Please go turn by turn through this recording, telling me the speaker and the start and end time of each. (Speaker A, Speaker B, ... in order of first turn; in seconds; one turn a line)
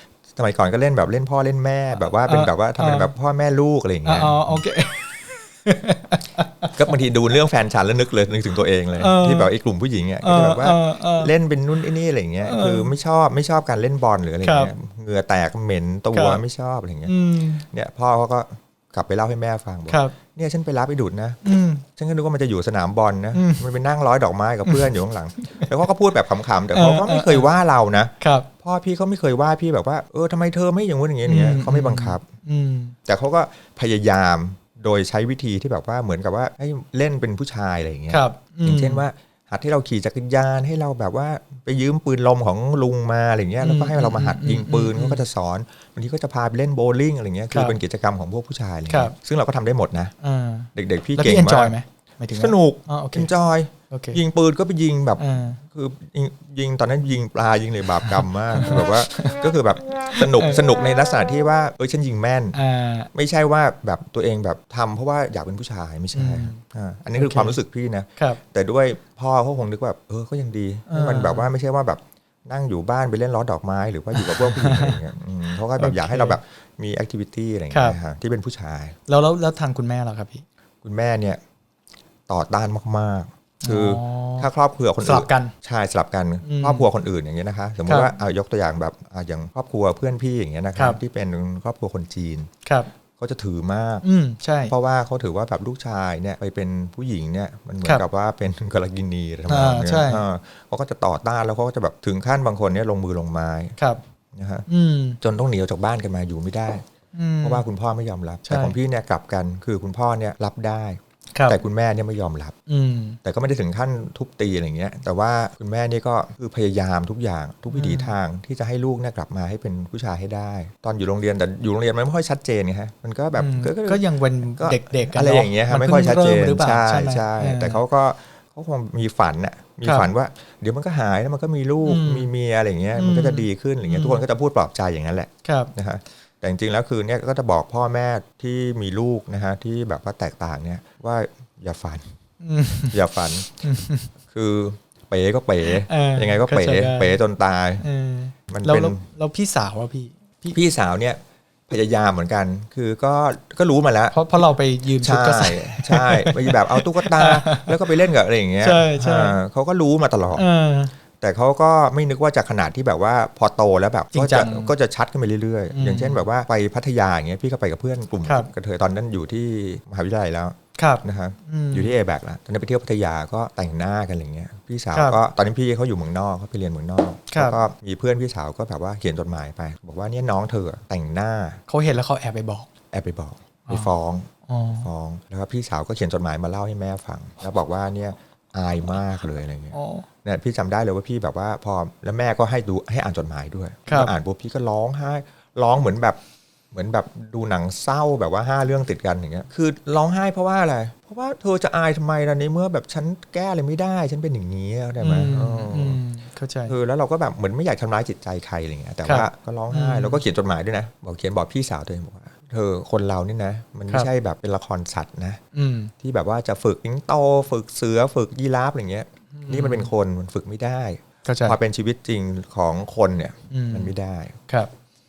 Speaker A: 0.3-4.6
Speaker B: 2.3-3.1
Speaker B: 4.0-6.7
Speaker A: 6.8-32.2
Speaker B: 9.0-9.5
Speaker B: 10.2-11.3
Speaker B: 12.4-12.9
Speaker B: 14.4-14.7
Speaker B: 16.1-16.4
Speaker B: 17.1-17.6
Speaker B: 19.9-20.1
Speaker B: 21.4-21.8
Speaker B: 23.3-23.6
Speaker B: 24.6-25.7
Speaker B: 26.7-27.5
Speaker B: 28.2-28.5
Speaker B: 31.2-33.0
Speaker A: 33.0-50.1
Speaker B: 38.1-39.0
Speaker B: 43.6-45.2
Speaker B: 47.5-47.8
Speaker B: 48.9-49.1
Speaker B: 50.2-53.3
Speaker A: 50.8-51.8
Speaker A: 52.3-62.5
Speaker B: 53.9-54.2
Speaker B: 55.2-55.6
Speaker B: 58.0-59.5
Speaker B: 60.1-60.7
Speaker B: 62.5-63.1
Speaker A: 63.1-79.0
Speaker B: 66.1-66.6
Speaker B: 67.2-67.6
Speaker B: 70.9-71.5
Speaker B: 74.1-75.0
Speaker B: 75.8-76.3
Speaker B: 77.7-78.0
Speaker B: 79.1-80.4
Speaker A: 80.8-81.4
Speaker A: 82.3-92.5
Speaker B: 83.6-84.5
Speaker B: 85.0-85.5
Speaker B: 86.4-86.9
Speaker B: 92.6-92.9
Speaker A: 93.2-94.0
Speaker B: 94.0-94.7
Speaker A: 94.7-103.8
Speaker B: 99.5-100.2
Speaker A: 104.3-104.7
Speaker B: 104.7-105.2
Speaker A: 105.2-106.8
Speaker B: 107.1-107.6
Speaker A: 107.4-112.5
Speaker B: 108.5-108.8
Speaker B: 112.7-113.2
Speaker A: 113.2-142.1
Speaker B: 117.7-118.1
Speaker B: 123.4-127.8
Speaker B: 131.8-132.3
Speaker B: 132.9-134.2
Speaker B: 135.4-135.7
Speaker B: 142.4-143.0
Speaker A: 142.8-143.5
Speaker B: 143.5-144.1
Speaker A: 144.3-147.8
Speaker B: 145.7-147.2
Speaker B: 147.8-150.6
Speaker A: 148.5-149.0
Speaker A: 150.5-154.2
Speaker B: 154.1-157.8
Speaker A: 155.0-160.4
Speaker B: 158.6-159.4
Speaker B: 160.3-160.9
Speaker A: 161.2-181.6
Speaker B: 164.1-164.7
Speaker B: 165.7-166.2
Speaker B: 170.8-171.9
Speaker B: 177.3-177.6
Speaker B: 181.7-182.7
Speaker A: 182.9-184.3
Speaker B: 184.5-184.9
Speaker A: 184.8-196.2
Speaker B: 189.7-190.1
Speaker B: 193.9-194.1
Speaker A: 196.7-206.0
Speaker B: 205.0-206.7
Speaker A: 206.7-215.4
Speaker B: 209.0-210.2
Speaker B: 215.5-215.9
Speaker A: 216.0-224.4
Speaker B: 219.3-219.9
Speaker B: 221.2-221.6
Speaker B: 223.5-223.9